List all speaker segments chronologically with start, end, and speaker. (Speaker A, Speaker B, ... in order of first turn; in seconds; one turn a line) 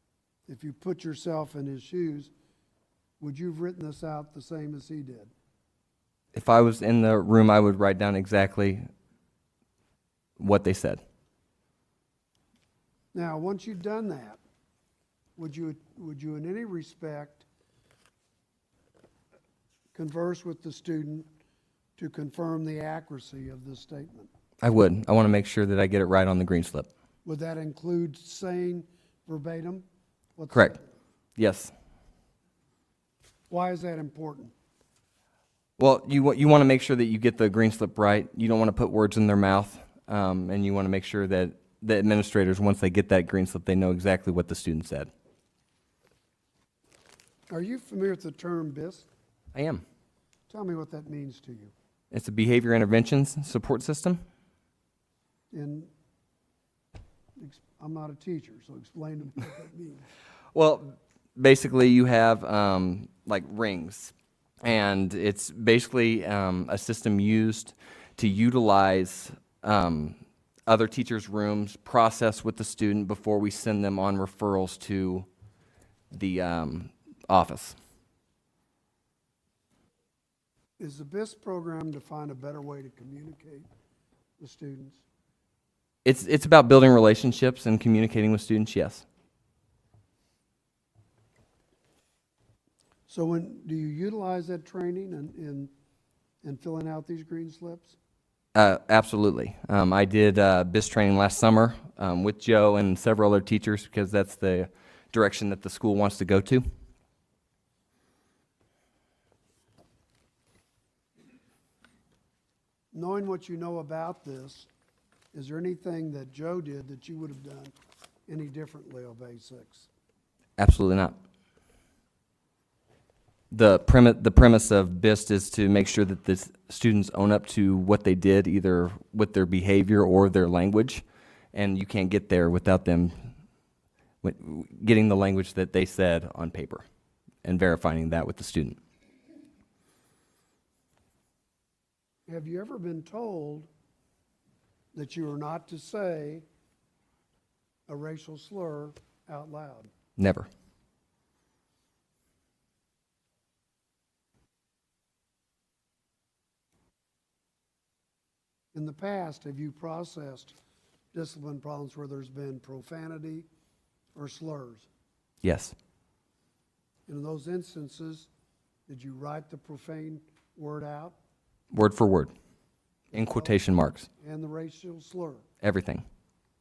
Speaker A: 0.5-2.3
Speaker A: 3.2-5.3
Speaker B: 6.3-8.9
Speaker B: 10.4-11.0
Speaker A: 13.1-14.4
Speaker A: 15.4-17.4
Speaker A: 19.9-21.3
Speaker A: 22.0-24.3
Speaker B: 24.6-26.9
Speaker A: 27.2-29.8
Speaker A: 30.4-30.9
Speaker B: 30.5-30.8
Speaker B: 31.4-31.7
Speaker A: 33.5-34.5
Speaker B: 35.8-45.1
Speaker A: 47.5-49.1
Speaker B: 49.5-49.8
Speaker A: 50.5-51.7
Speaker B: 52.1-54.2
Speaker A: 55.5-55.9
Speaker A: 57.4-60.0
Speaker B: 60.5-75.3
Speaker B: 76.1-77.8
Speaker A: 80.8-83.7
Speaker A: 84.4-85.0
Speaker B: 86.0-89.0
Speaker A: 93.1-95.7
Speaker A: 96.4-98.0
Speaker B: 98.5-106.6
Speaker A: 112.9-114.7
Speaker A: 115.3-117.7
Speaker A: 118.3-119.9
Speaker B: 120.6-121.1
Speaker B: 123.5-133.3
Speaker B: 134.2-136.8
Speaker B: 137.4-138.8
Speaker A: 142.3-143.7
Speaker A: 144.9-146.4
Speaker A: 147.9-149.9
Speaker B: 150.2-150.5
Speaker A: 158.7-160.6
Speaker A: 161.1-163.5
Speaker A: 164.1-164.9
Speaker B: 165.4-165.7
Speaker A: 167.1-168.3
Speaker A: 168.9-171.2
Speaker B: 171.7-172.3
Speaker A: 173.1-173.6
Speaker B: 173.1-174.1
Speaker A: 174.2-175.4
Speaker B: 175.6-176.0